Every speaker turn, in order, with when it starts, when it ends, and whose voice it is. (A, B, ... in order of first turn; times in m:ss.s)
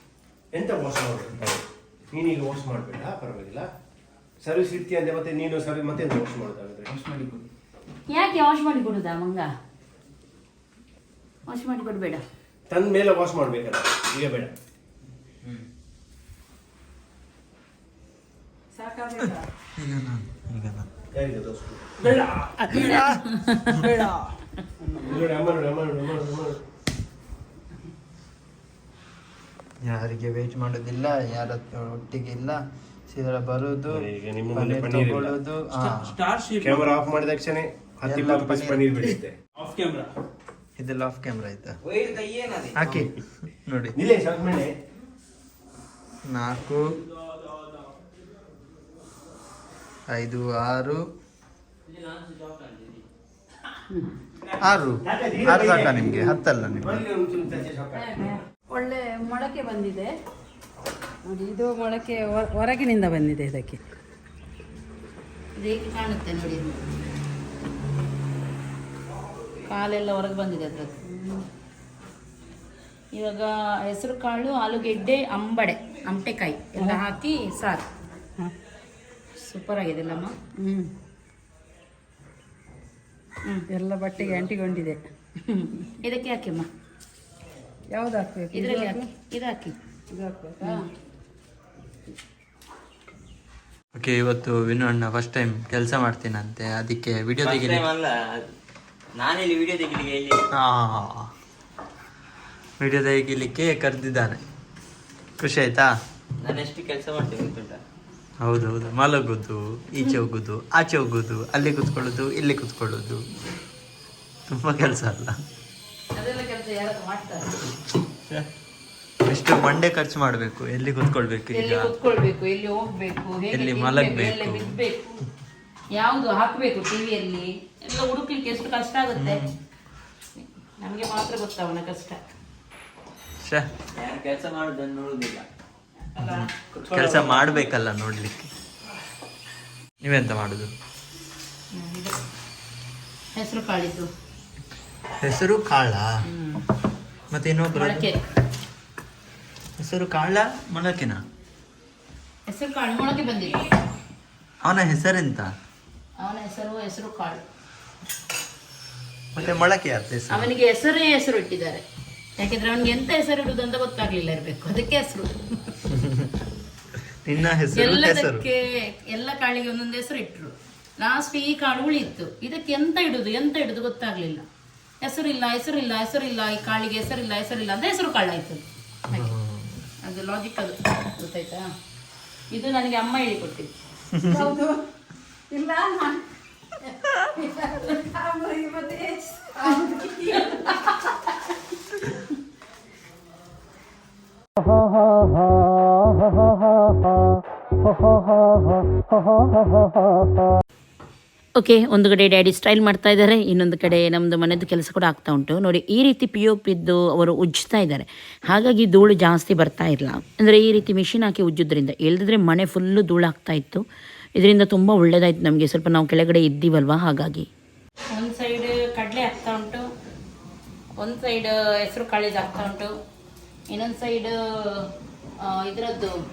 0:00.5-0:03.7 A
0:04.4-0:06.9 A
0:06.9-0:07.5 B
0:08.1-0:09.5 C
0:11.5-0:12.2 C
0:12.7-0:14.5 A
0:18.7-0:19.5 D
0:19.8-0:20.9 E
0:21.1-0:22.1 A
0:22.8-0:23.8 C
0:22.9-0:23.2 E
0:24.9-0:25.2 D
0:25.0-0:26.6 A
0:29.8-0:32.6 F
0:33.1-0:36.1 F
0:33.9-0:35.4 A
0:35.8-0:36.8 B
0:36.5-0:39.4 A
0:38.1-0:38.9 F
0:39.6-0:40.0 B
0:40.8-0:41.8 F
0:41.8-0:42.9 B
0:42.8-0:43.1 F
0:42.8-0:43.1 E
0:43.6-0:43.9 E
0:44.0-0:44.7 A
0:46.3-0:46.8 F
0:50.1-0:51.0 F
0:51.9-0:53.0 B
0:53.9-0:54.1 D
0:54.6-0:57.1 F
0:55.0-0:58.3 A
0:58.0-1:00.1 D
1:01.3-1:03.8 D
1:05.6-1:06.9 C
1:09.6-1:11.0 C
1:11.1-1:11.4 D
1:13.1-1:17.9 C
1:19.4-1:20.3 C
1:20.6-1:20.9 D
1:23.7-1:25.0 D
1:25.5-1:26.7 C
1:27.9-1:29.1 D
1:28.5-1:29.8 C
1:30.1-1:30.9 D
1:34.0-1:37.9 E
1:37.4-1:38.4 B
1:39.2-1:40.4 B
1:40.5-1:41.3 E
1:42.8-1:44.4 E
1:45.4-1:45.9 E
1:46.4-1:47.8 B
1:48.4-1:53.2 E
1:54.5-1:55.4 E
1:56.2-1:57.7 C
1:59.2-2:01.9 E
2:01.5-2:05.2 C
2:03.5-2:04.8 E
2:05.9-2:09.4 C
2:09.2-2:09.5 E
2:10.8-2:12.2 C
2:13.4-2:13.7 E
2:13.9-2:15.5 B
2:16.2-2:16.5 C
2:16.2-2:18.5 E
2:16.7-2:17.6 B
2:20.0-2:20.7 E
2:21.7-2:22.2 C
2:23.3-2:24.1 C
2:25.2-2:26.1 E
2:26.2-2:26.6 C
2:27.3-2:28.1 E
2:27.8-2:28.2 C
2:29.8-2:31.2 E
2:32.5-2:33.7 C
2:34.6-2:35.5 E
2:36.2-2:37.4 C
2:39.3-2:40.5 E
2:40.3-2:41.8 C
2:42.4-2:45.4 C
2:45.9-2:46.3 E
2:47.2-2:48.4 E
2:47.8-2:54.4 C
2:55.0-2:59.4 C
2:59.1-2:59.8 E
3:00.0-3:01.7 C
3:02.5-3:03.7 C
3:04.2-3:04.5 E
3:04.2-3:04.8 D
3:05.5-3:06.2 D
3:07.4-3:11.3 D
3:10.4-3:10.9 C
3:21.6-3:33.8 C
3:34.4-3:37.5 C
3:38.1-3:39.9 C
3:41.0-3:42.9 C
3:43.7-3:44.9 C
3:45.4-3:46.2 C